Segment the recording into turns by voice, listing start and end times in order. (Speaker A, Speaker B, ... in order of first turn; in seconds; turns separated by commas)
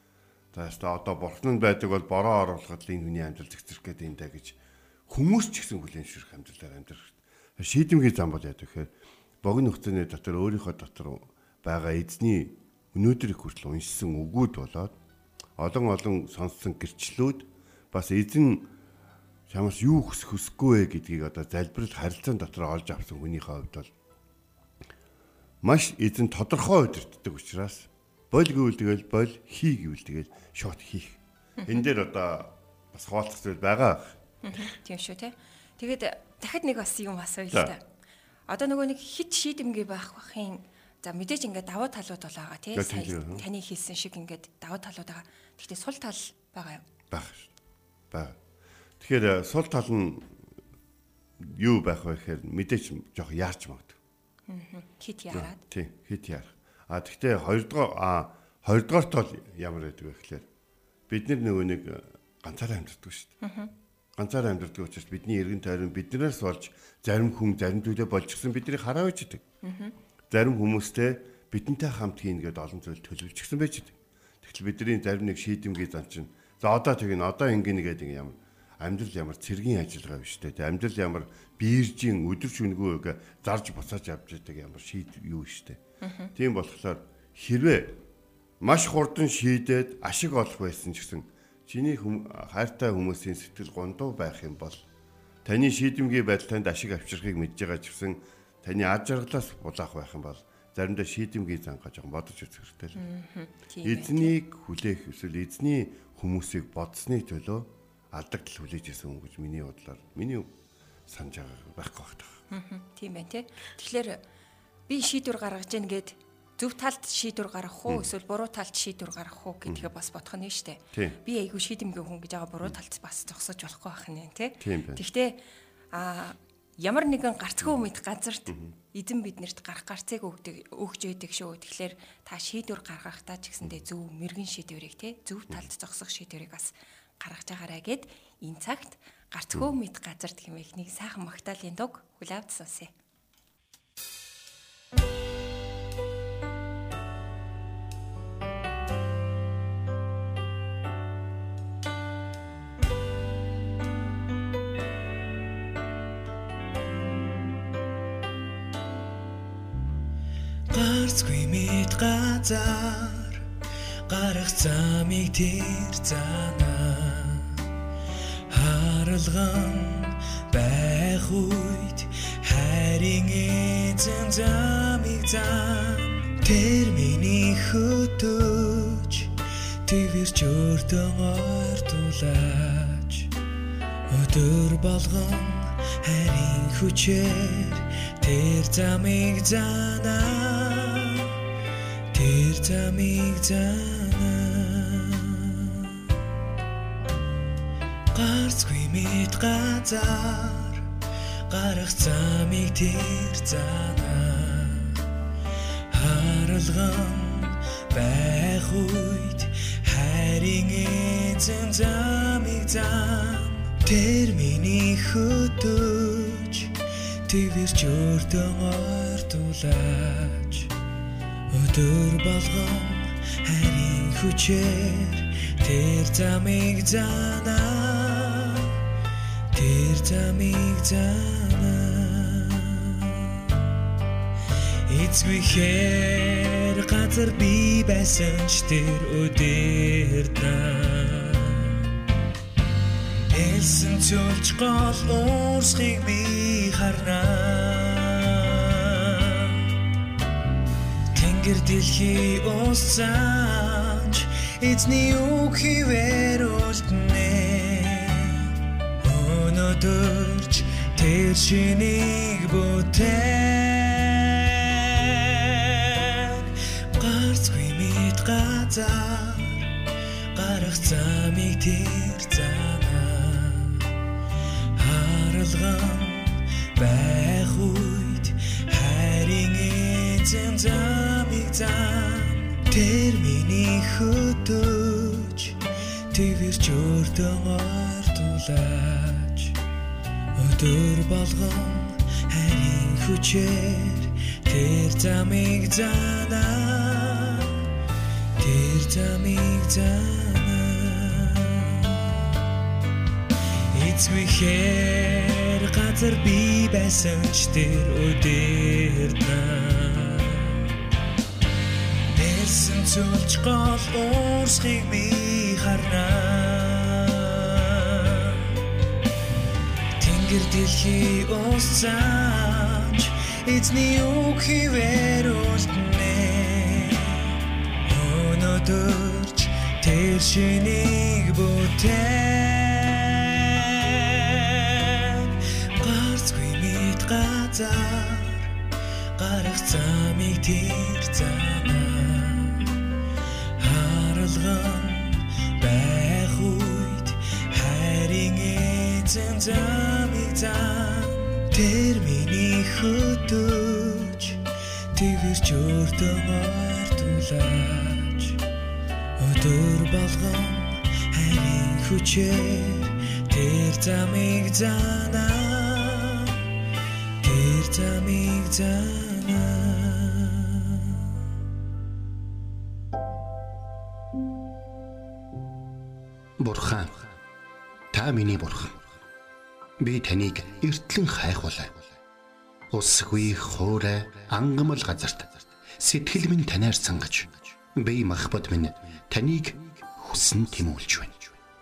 Speaker A: 0.5-8.9, Speaker A: 9.4-15.0, Speaker A: 15.6-18.7, Speaker A: 19.5-23.9, Speaker A: 25.6-34.2, Speaker B: 31.6-31.9, Speaker B: 34.4-37.8, Speaker B: 38.5-46.8, Speaker A: 42.8-43.5, Speaker A: 47.1-47.5, Speaker A: 48.1-48.4, Speaker A: 49.0-50.4, Speaker A: 51.4-54.0, Speaker B: 54.5-55.6, Speaker A: 55.3-60.5, Speaker A: 61.1-63.3, Speaker B: 63.4-63.7, Speaker A: 64.2-69.4, Speaker B: 69.6-69.9, Speaker A: 70.3-85.8, Speaker B: 86.0-86.3, Speaker A: 86.3-88.0, Speaker A: 88.6-94.8, Speaker A: 95.5-103.0, Speaker B: 103.0-104.3, Speaker A: 103.8-110.5, Speaker A: 111.1-112.4, Speaker B: 112.5-114.2, Speaker B: 114.9-125.4, Speaker A: 119.7-119.9, Speaker A: 120.9-121.2, Speaker A: 124.6-125.0, Speaker B: 125.9-142.9, Speaker A: 128.5-128.7, Speaker C: 160.7-163.4, Speaker C: 164.1-167.7, Speaker C: 168.5-179.3, Speaker C: 179.9-183.3, Speaker C: 184.1-191.3, Speaker C: 192.1-195.8, Speaker C: 198.1-200.9, Speaker C: 201.5-205.0, Speaker C: 205.9-216.7, Speaker C: 217.3-220.7, Speaker C: 221.5-228.7, Speaker C: 229.6-233.3, Speaker C: 234.9-241.9, Speaker C: 243.3-249.7, Speaker C: 251.2-269.7, Speaker C: 270.4-273.9, Speaker C: 274.8-285.6, Speaker C: 286.1-289.6, Speaker C: 290.4-297.6, Speaker C: 298.4-302.2, Speaker C: 303.7-310.7, Speaker C: 312.1-318.5, Speaker C: 320.0-327.3, Speaker C: 327.9-338.6, Speaker C: 339.2-342.7, Speaker C: 343.6-354.4, Speaker C: 354.9-358.4, Speaker C: 359.2-366.4, Speaker C: 367.2-371.0, Speaker D: 376.4-377.0, Speaker D: 377.9-378.8, Speaker D: 379.8-381.8, Speaker D: 382.7-391.4